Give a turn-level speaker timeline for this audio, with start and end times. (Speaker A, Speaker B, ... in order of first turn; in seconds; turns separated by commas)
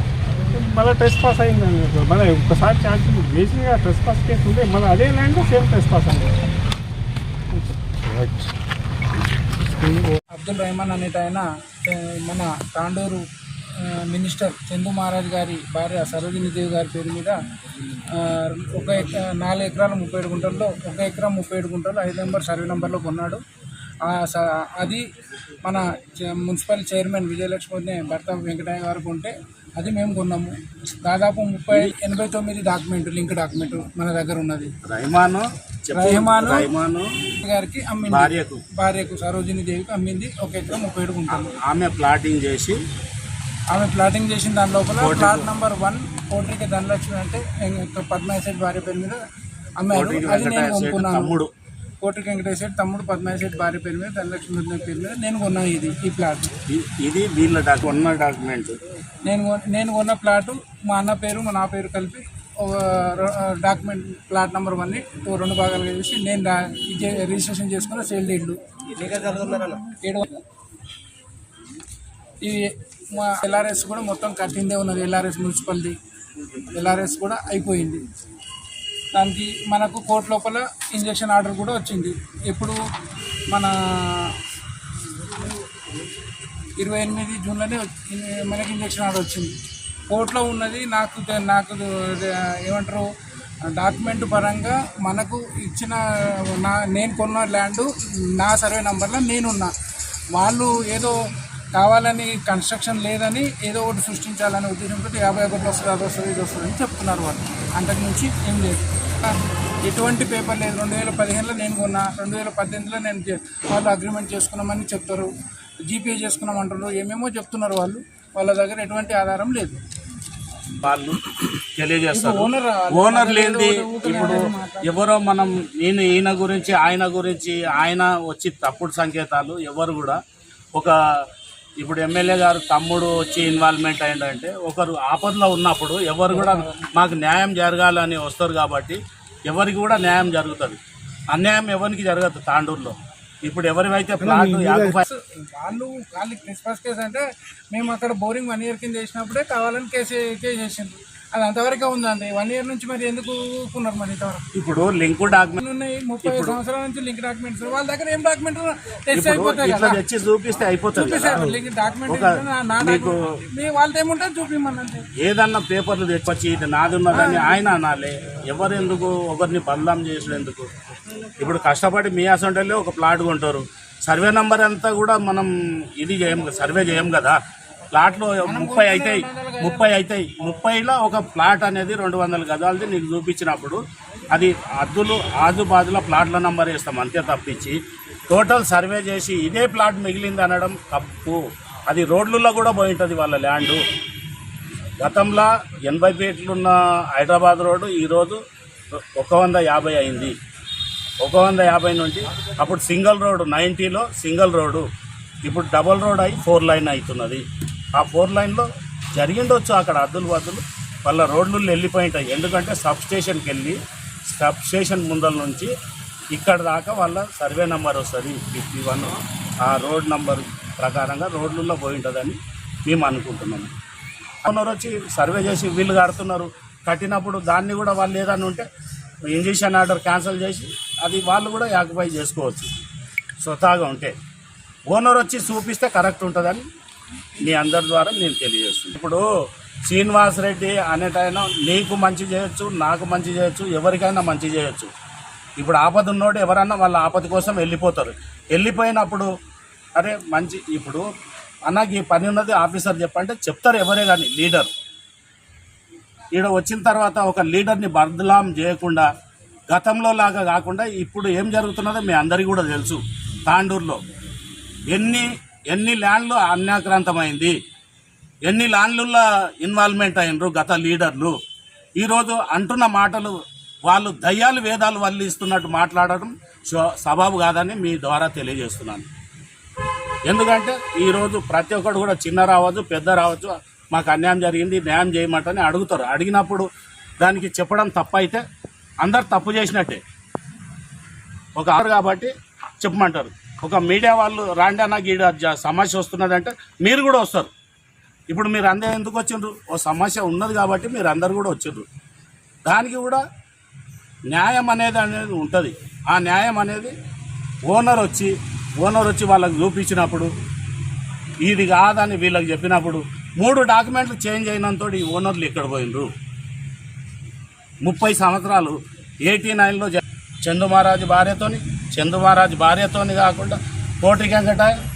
Speaker A: 0.3-6.3, Speaker B: 10.3-13.2, Speaker B: 13.8-17.4, Speaker B: 18.1-23.4, Speaker B: 24.0-25.0, Speaker B: 25.6-34.7, Speaker C: 34.9-37.1, Speaker B: 35.9-36.7, Speaker B: 37.4-41.5, Speaker C: 38.1-38.6, Speaker C: 41.3-42.8, Speaker B: 43.7-49.2, Speaker C: 45.0-45.5, Speaker B: 49.8-51.4, Speaker C: 49.9-51.5, Speaker B: 52.0-56.5, Speaker C: 56.7-58.8, Speaker B: 59.3-70.4, Speaker B: 72.4-75.9, Speaker B: 76.7-78.0, Speaker B: 79.1-82.8, Speaker B: 83.5-84.3, Speaker B: 86.8-89.5, Speaker B: 90.1-93.0, Speaker B: 93.7-97.9, Speaker B: 98.4-99.7, Speaker B: 100.3-101.1, Speaker B: 101.7-115.3, Speaker B: 115.9-119.8, Speaker C: 120.8-121.2, Speaker C: 121.8-130.2, Speaker B: 122.1-124.9, Speaker C: 131.8-140.8, Speaker C: 141.3-145.0, Speaker B: 144.7-154.4, Speaker C: 154.5-155.6, Speaker B: 155.6-160.0, Speaker C: 156.2-156.6, Speaker C: 159.1-163.2, Speaker B: 160.9-165.0, Speaker C: 165.2-170.7, Speaker B: 167.1-167.7, Speaker C: 171.4-177.3, Speaker C: 177.9-183.8, Speaker B: 178.4-180.0, Speaker C: 184.3-187.8, Speaker C: 188.3-193.8, Speaker C: 195.0-198.4, Speaker C: 198.9-200.3, Speaker C: 201.2-204.8, Speaker C: 205.4-207.4, Speaker C: 207.9-213.8, Speaker C: 214.3-215.7, Speaker C: 216.3-223.7, Speaker C: 224.4-228.6, Speaker C: 229.3-232.7, Speaker C: 233.4-234.1, Speaker C: 234.9-236.7, Speaker C: 237.4-239.2, Speaker C: 239.9-244.9, Speaker C: 245.6-249.3, Speaker C: 249.9-251.0, Speaker C: 251.7-254.7, Speaker C: 256.3-259.1, Speaker C: 259.7-264.0, Speaker C: 264.9-267.5, Speaker C: 268.4-271.4, Speaker C: 272.0-279.1, Speaker C: 280.3-286.6, Speaker C: 287.2-288.4, Speaker C: 289.0-290.0, Speaker C: 291.6-297.5, Speaker C: 298.3-301.9, Speaker C: 302.6-303.2, Speaker C: 304.3-306.9, Speaker C: 307.7-310.3, Speaker C: 311.4-316.1, Speaker C: 317.8-324.7